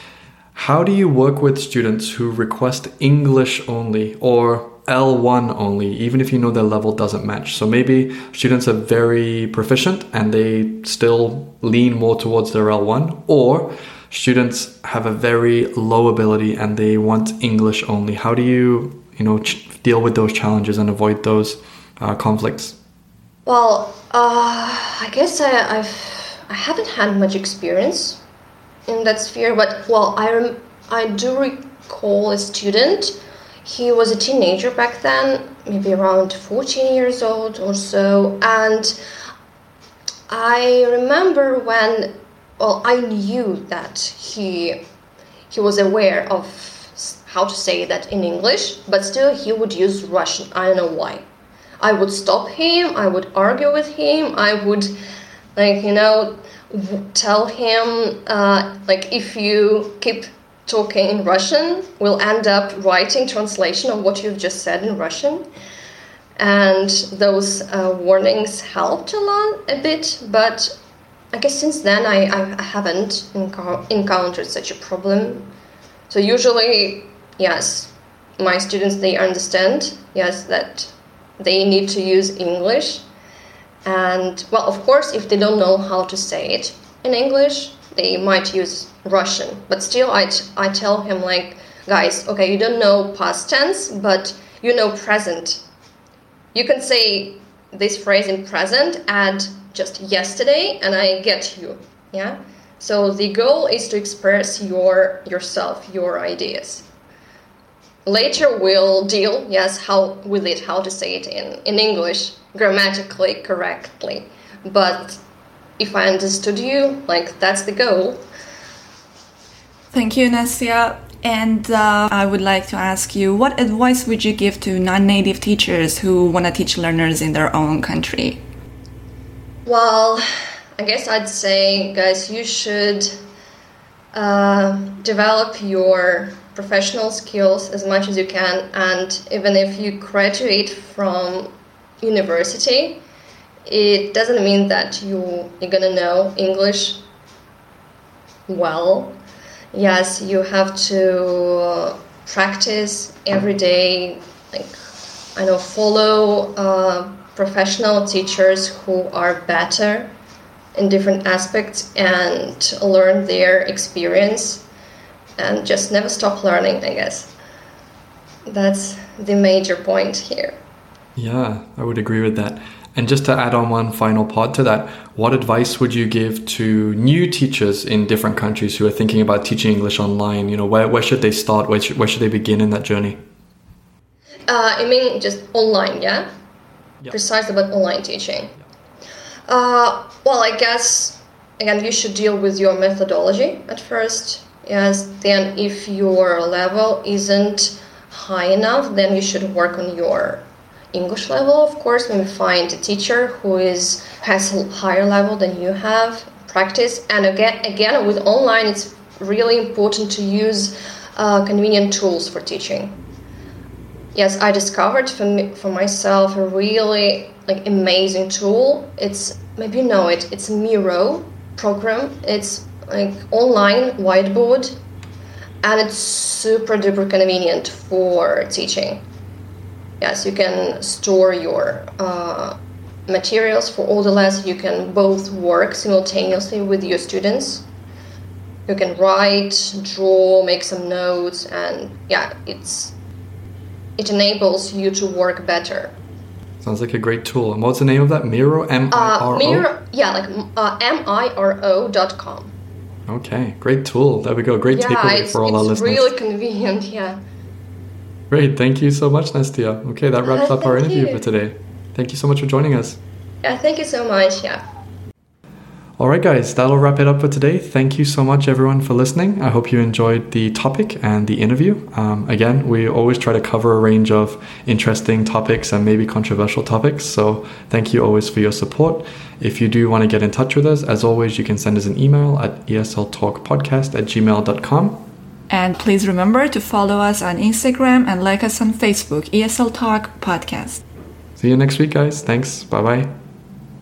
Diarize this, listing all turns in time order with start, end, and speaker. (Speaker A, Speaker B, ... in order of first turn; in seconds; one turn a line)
Speaker A: 0.5-22.8
Speaker B: 23.4-28.2
Speaker B: 28.9-39.0
Speaker B: 40.3-44.8
Speaker B: 45.5-51.2
Speaker B: 51.8-54.9
Speaker B: 55.5-65.5
Speaker B: 66.4-70.7
Speaker B: 71.3-75.5
Speaker B: 76.1-83.0
Speaker B: 83.8-95.6
Speaker B: 96.5-106.8
Speaker B: 108.0-115.2
Speaker B: 115.8-118.2
Speaker C: 119.9-128.4
Speaker B: 129.7-133.2
Speaker B: 134.1-143.0
Speaker B: 143.7-147.0
Speaker B: 148.5-149.2
Speaker B: 149.7-154.7
Speaker B: 155.3-160.1
Speaker B: 160.8-164.6
Speaker B: 165.4-167.3
Speaker B: 168.5-170.6
Speaker A: 171.2-183.2
Speaker B: 184.5-186.3
Speaker B: 187.1-188.5
Speaker B: 189.5-213.0
Speaker B: 214.1-224.8
Speaker B: 225.6-229.0
Speaker B: 230.0-232.6
Speaker B: 233.1-237.7
Speaker B: 238.7-242.9
Speaker B: 244.0-245.9
Speaker A: 246.6-249.7
Speaker B: 248.9-252.5
Speaker A: 253.1-256.1
Speaker B: 254.7-257.2
Speaker A: 258.3-263.0
Speaker B: 260.2-261.2
Speaker B: 263.4-264.6
Speaker A: 266.0-285.1
Speaker C: 285.5-290.8
Speaker A: 291.4-293.1